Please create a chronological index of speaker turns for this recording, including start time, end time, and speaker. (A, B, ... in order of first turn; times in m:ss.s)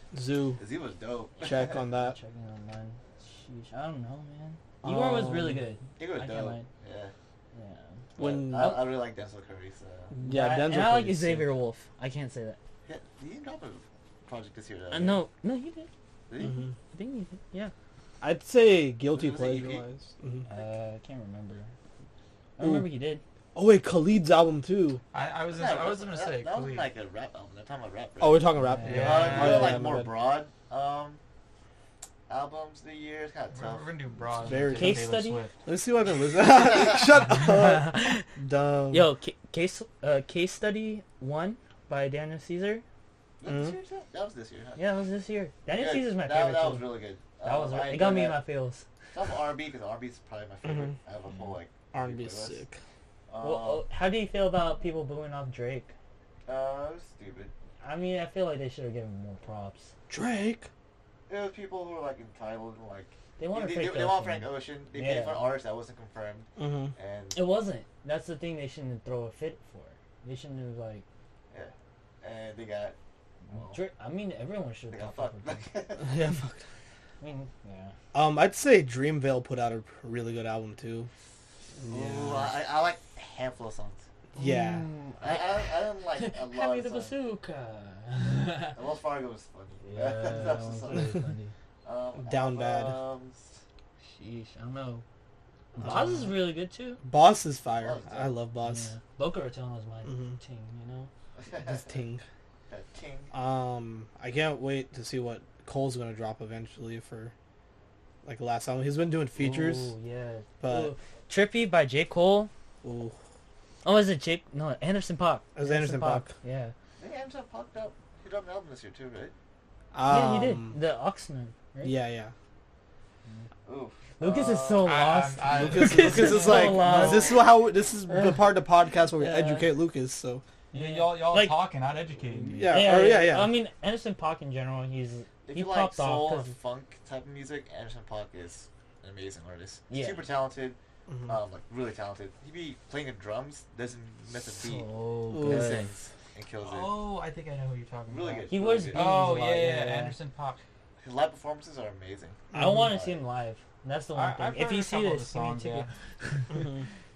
0:00.1-0:00.6 A
0:00.6-0:01.8 B
0:01.4-0:02.2 A
0:01.9-0:06.7 C
0:04.8-0:05.6 A
0:06.0-0:07.1 B
0:07.5-0:08.9 C
0:08.2-0:10.1 B
0:08.2-0:08.9 A
0:10.1-0:12.6 C
0:10.2-0:11.5 A
0:12.8-0:15.2 B
0:14.9-0:15.9 C
0:16.3-0:16.6 B
0:16.4-0:16.7 A
0:16.9-0:17.7 C
0:18.2-0:20.4 A
0:19.1-0:19.8 B
0:20.5-0:21.7 C
0:22.6-0:23.2 C
0:22.6-0:22.9 A
0:23.5-0:25.0 A
0:25.1-0:26.9 D
0:25.5-0:28.4 B
0:28.2-0:30.1 A
0:28.6-0:29.6 C
0:28.8-0:29.8 D
0:29.0-0:31.2 B
0:32.3-0:33.9 B
0:33.5-0:35.6 D
0:34.4-0:35.1 A
0:34.7-0:35.4 C
0:35.6-0:39.1 A
0:36.4-0:37.0 B
0:37.3-0:38.3 C
0:38.9-0:42.8 C
0:43.4-0:44.8 B
0:43.4-0:43.8 A
0:44.8-0:48.8 C
0:45.7-0:48.4 B
0:49.1-0:52.6 B
0:50.6-0:50.9 A
0:51.3-0:51.6 C
0:51.9-0:52.8 A
0:53.3-0:53.8 B
0:53.4-0:55.9 C
0:56.4-0:57.5 B
0:57.8-0:59.9 C
1:00.1-1:00.7 A
1:01.3-1:07.4 B
1:03.4-1:05.5 C
1:06.6-1:06.9 A
1:07.3-1:11.0 C
1:11.5-1:13.0 B
1:13.5-1:15.6 C
1:14.9-1:16.2 B
1:16.0-1:16.6 A
1:17.2-1:17.9 C
1:18.1-1:21.1 A
1:21.8-1:22.5 A
1:21.9-1:24.0 B
1:24.3-1:24.8 A
1:24.3-1:28.8 C
1:25.2-1:27.1 B
1:28.7-1:31.2 B
1:29.8-1:31.5 C
1:31.8-1:33.6 B
1:32.2-1:33.0 A
1:34.0-1:35.0 C
1:35.8-1:36.4 A
1:35.8-1:37.0 C
1:37.0-1:38.9 A
1:37.8-1:38.4 B
1:38.6-1:41.1 C
1:40.0-1:40.4 A
1:41.4-1:41.9 B
1:41.5-1:42.2 A
1:42.7-1:43.3 B
1:43.3-1:47.3 A
1:48.2-1:49.9 A
1:49.4-1:52.5 C
1:50.6-1:50.9 A
1:52.8-1:53.2 A
1:53.8-1:56.7 C
1:55.5-1:56.3 A
1:57.0-1:59.3 B
1:59.9-2:00.8 A
2:00.0-2:02.0 C
2:01.8-2:02.3 A
2:03.6-2:05.0 B
2:04.2-2:07.4 C
2:04.8-2:07.1 D
2:05.5-2:10.4 A
2:06.9-2:07.3 B
2:08.1-2:08.5 C
2:09.1-2:09.7 C
2:10.7-2:12.8 D
2:10.7-2:11.6 C
2:12.3-2:16.5 C
2:12.5-2:13.5 A
2:15.4-2:24.9 B
2:19.9-2:20.2 C
2:21.1-2:21.4 A
2:24.4-2:25.9 C
2:25.3-2:25.8 A
2:25.4-2:27.1 B
2:26.6-2:30.6 D
2:28.1-2:29.1 B
2:28.5-2:30.1 C
2:31.0-2:33.2 B
2:32.5-2:33.0 A
2:32.5-2:36.4 C
2:34.1-2:35.9 D
2:36.5-2:36.8 A